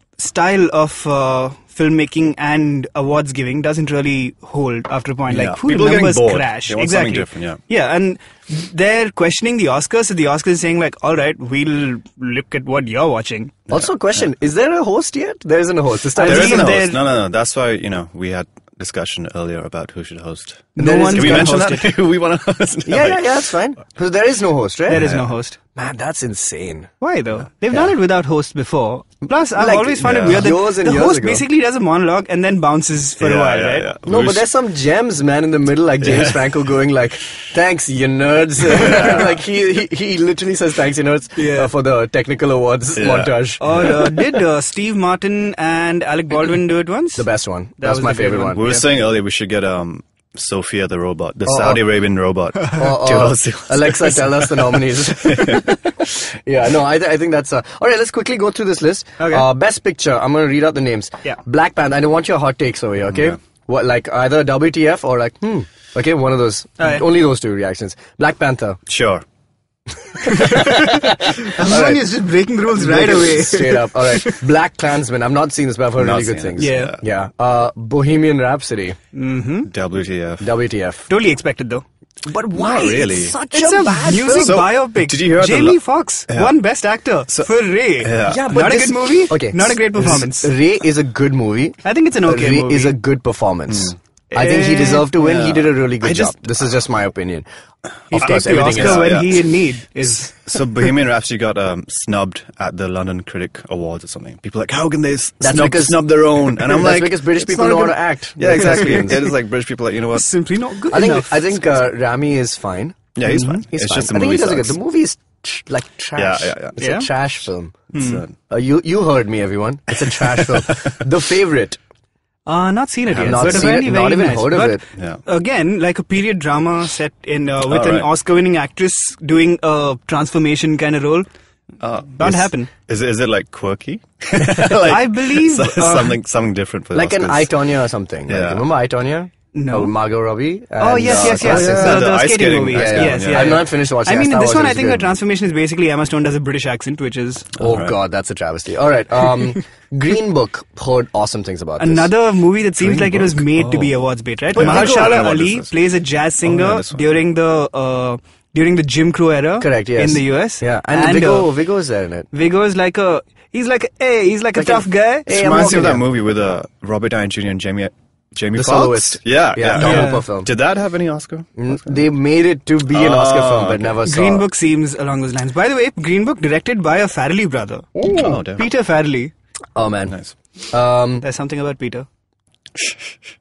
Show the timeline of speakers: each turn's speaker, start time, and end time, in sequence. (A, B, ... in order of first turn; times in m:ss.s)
0:00.2-0:13.5 A
0:05.3-0:07.6 B
0:13.7-0:16.8 C
0:16.2-0:17.0 A
0:16.2-0:23.4 B
0:20.8-0:21.9 A
0:20.8-0:21.6 C
0:22.9-0:25.1 C
0:24.9-0:25.6 A
0:24.9-0:25.3 B
0:25.8-0:26.9 C
0:27.0-0:33.9 A
0:29.6-0:31.4 C
0:30.0-0:30.6 B
0:33.2-0:34.5 B
0:34.0-0:43.9 C
0:36.0-0:36.4 B
0:38.7-0:39.4 B
0:41.4-0:41.7 A
0:43.0-0:44.0 B
0:43.6-0:47.3 A
0:47.2-0:48.6 C
0:47.8-0:48.9 A
0:48.5-0:55.6 B
0:51.4-0:51.8 C
0:52.7-1:08.8 C
0:59.2-0:59.5 A
1:03.1-1:03.4 B
1:06.8-1:07.0 A
1:08.9-1:09.2 B
1:10.2-1:12.1 C
1:10.2-1:14.4 A
1:12.7-1:19.0 C
1:16.0-1:17.0 B
1:16.6-1:17.0 A
1:19.1-1:19.7 A
1:19.7-1:20.5 B
1:20.4-1:21.1 C
1:21.1-1:21.8 A
1:22.2-1:24.6 C
1:22.5-1:23.4 B
1:23.5-1:30.5 A
1:24.3-1:26.6 B
1:27.3-1:28.5 B
1:28.2-1:37.5 C
1:31.8-1:33.0 A
1:34.3-1:35.1 A
1:35.2-1:36.4 B
1:38.1-1:40.5 A
1:38.1-1:39.2 C
1:38.1-1:39.5 B
1:40.3-1:50.3 B
1:45.4-1:49.2 C
1:50.1-1:51.6 A
1:50.9-2:01.8 C
1:53.2-1:54.8 B
1:56.2-1:56.8 B
1:56.8-1:57.1 A
1:57.9-1:58.2 A
1:57.9-1:58.3 B
2:00.4-2:00.9 B
2:02.5-2:11.3 A
2:03.1-2:03.8 B
2:03.2-2:04.8 C
2:05.0-2:05.2 B
2:07.7-2:08.1 B
2:11.8-2:17.6 B
2:12.2-2:12.7 A
2:14.4-2:16.2 A
2:16.9-2:22.1 C
2:18.3-2:18.6 B
2:19.5-2:20.0 A
2:20.8-2:27.5 A
2:21.0-2:23.7 B
2:22.7-2:25.1 C
2:27.6-2:27.9 B
2:27.6-2:32.1 C
2:31.8-2:41.5 A
2:32.8-2:33.9 B
2:34.5-2:35.7 B
2:34.6-2:35.3 C
2:36.4-2:37.1 B
2:39.6-2:42.3 C
2:42.3-2:46.0 A
2:44.6-2:46.1 C
2:45.3-2:52.0 B
2:48.6-2:50.5 C
2:49.8-2:50.2 A
2:51.6-2:54.5 C
2:52.9-2:54.0 B
2:54.1-2:59.3 A
2:58.1-2:58.7 B
2:59.8-3:00.1 C
3:00.1-3:00.3 B
3:00.7-3:01.2 C
3:01.2-3:02.1 A